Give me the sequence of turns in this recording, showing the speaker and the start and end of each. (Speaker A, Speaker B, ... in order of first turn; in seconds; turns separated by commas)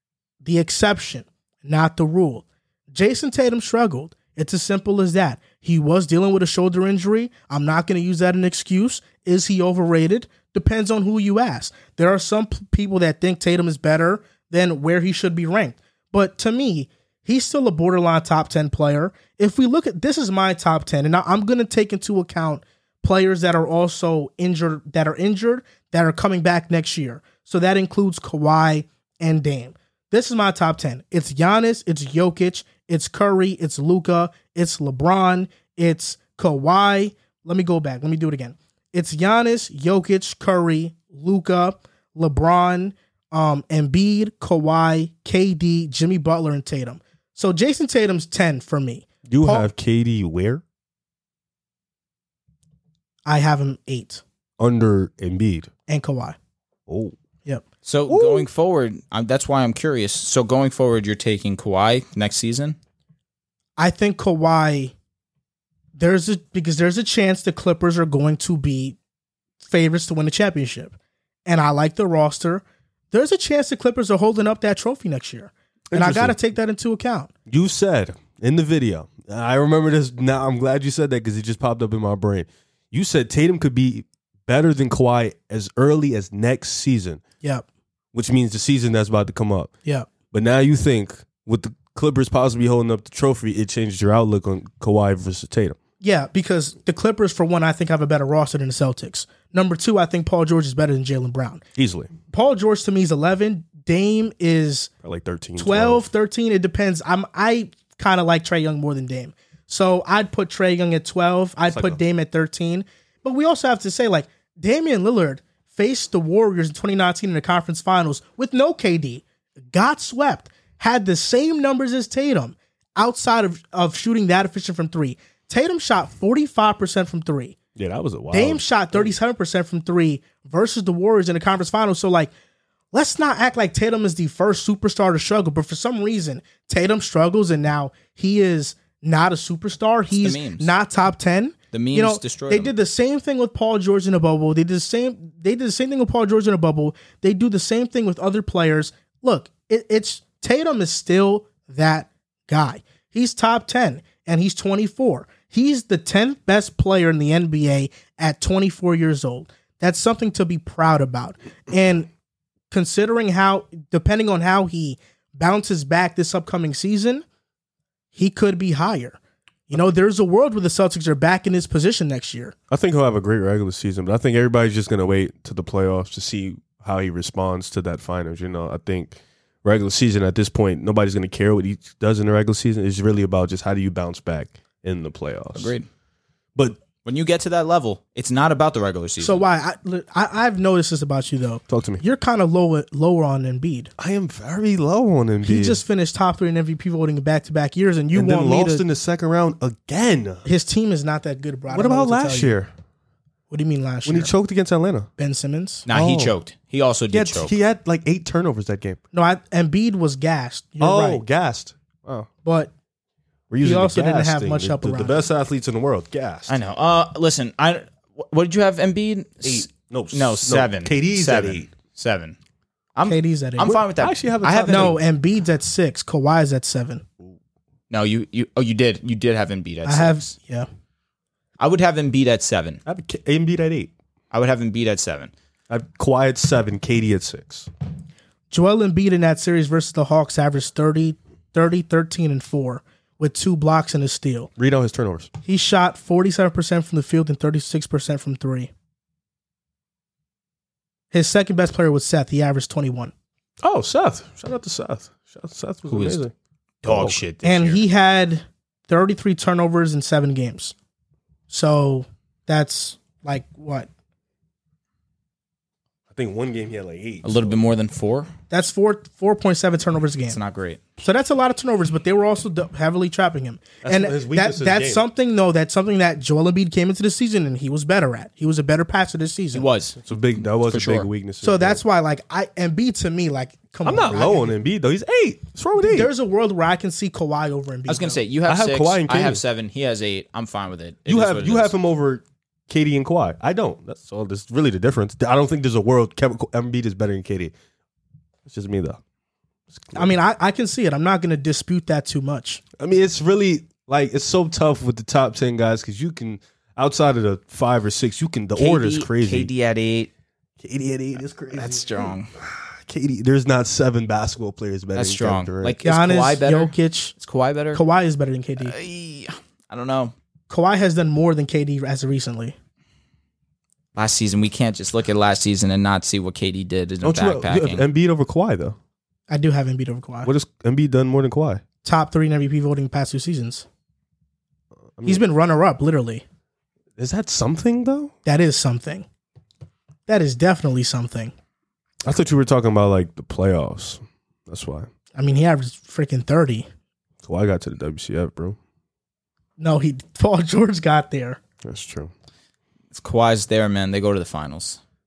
Speaker A: 0.4-49.7, Speaker B: 49.3-50.6, Speaker A: 53.2-54.2, Speaker B: 54.6-55.7, Speaker A: 55.9-56.4, Speaker B: 56.9-57.1, Speaker C: 57.8-62.8, Speaker B: 58.1-58.5, Speaker A: 63.8-64.9, Speaker A: 66.0-69.0, Speaker A: 69.6-77.3, Speaker B: 75.9-76.4, Speaker B: 77.5-87.2, Speaker B: 88.1-89.7, Speaker B: 90.3-95.8, Speaker A: 96.0-101.6, Speaker B: 101.8-102.1, Speaker A: 102.3-104.9, Speaker B: 105.0-106.0, Speaker A: 105.6-127.5, Speaker B: 111.7-112.0, Speaker B: 127.8-129.1, Speaker A: 128.3-132.3, Speaker A: 132.9-162.1, Speaker C: 140.2-140.7, Speaker C: 141.7-142.7, Speaker A: 162.7-167.2, Speaker A: 168.1-172.5, Speaker B: 172.7-185.7, Speaker C: 185.5-185.9, Speaker B: 186.5-186.8, Speaker C: 187.0-189.4, Speaker A: 189.2-193.9, Speaker B: 191.7-192.0, Speaker B: 194.0-195.8, Speaker A: 195.4-198.8, Speaker B: 198.1-200.4, Speaker A: 200.4-202.5, Speaker B: 201.7-202.7, Speaker A: 203.5-204.3, Speaker B: 204.1-205.1, Speaker A: 205.2-205.8, Speaker C: 205.9-207.5, Speaker B: 205.9-206.3, Speaker B: 207.1-209.0, Speaker A: 209.1-211.2, Speaker B: 210.8-212.3, Speaker A: 212.4-212.7, Speaker B: 213.5-216.6, Speaker A: 213.6-215.2, Speaker C: 216.5-222.3, Speaker B: 219.4-221.7, Speaker C: 222.9-225.0, Speaker A: 223.0-223.8, Speaker B: 223.6-225.0, Speaker A: 224.7-227.0, Speaker C: 227.9-230.3, Speaker A: 229.8-230.7, Speaker C: 231.6-232.8, Speaker B: 232.8-233.9, Speaker C: 234.3-235.3, Speaker B: 235.7-237.7, Speaker A: 238.5-244.5, Speaker B: 244.6-245.3, Speaker A: 245.4-248.7, Speaker A: 251.1-253.1, Speaker B: 253.6-256.3, Speaker C: 255.9-256.2, Speaker C: 256.8-257.8, Speaker B: 256.8-257.2, Speaker A: 257.4-260.7, Speaker A: 261.5-263.9, Speaker B: 266.1-267.6, Speaker C: 267.2-268.3, Speaker A: 268.5-270.4, Speaker C: 270.3-270.8, Speaker A: 271.0-279.7, Speaker B: 273.8-275.0, Speaker C: 279.5-280.0, Speaker B: 280.0-281.8, Speaker C: 280.6-281.1, Speaker A: 281.4-284.5, Speaker B: 283.8-286.1, Speaker A: 285.8-288.2, Speaker C: 287.9-291.7, Speaker B: 288.4-289.4, Speaker B: 291.1-297.5, Speaker B: 298.4-299.0, Speaker B: 299.7-300.1, Speaker A: 299.9-302.6, Speaker B: 302.8-309.5, Speaker C: 308.6-310.1, Speaker B: 310.6-315.8, Speaker C: 311.5-312.3, Speaker C: 314.9-317.8, Speaker A: 315.8-317.1, Speaker A: 317.7-318.7, Speaker C: 318.6-320.1, Speaker A: 320.5-322.5, Speaker C: 323.9-327.8, Speaker B: 327.0-328.8, Speaker A: 329.3-330.3, Speaker B: 330.2-331.6, Speaker A: 331.8-333.6, Speaker B: 334.9-335.2, Speaker A: 335.0-336.2, Speaker B: 337.0-338.1, Speaker A: 338.2-339.1, Speaker A: 340.1-341.3, Speaker B: 342.0-344.9, Speaker A: 345.1-346.7, Speaker B: 347.2-348.6, Speaker A: 349.6-351.4, Speaker B: 351.6-352.1, Speaker C: 352.9-354.8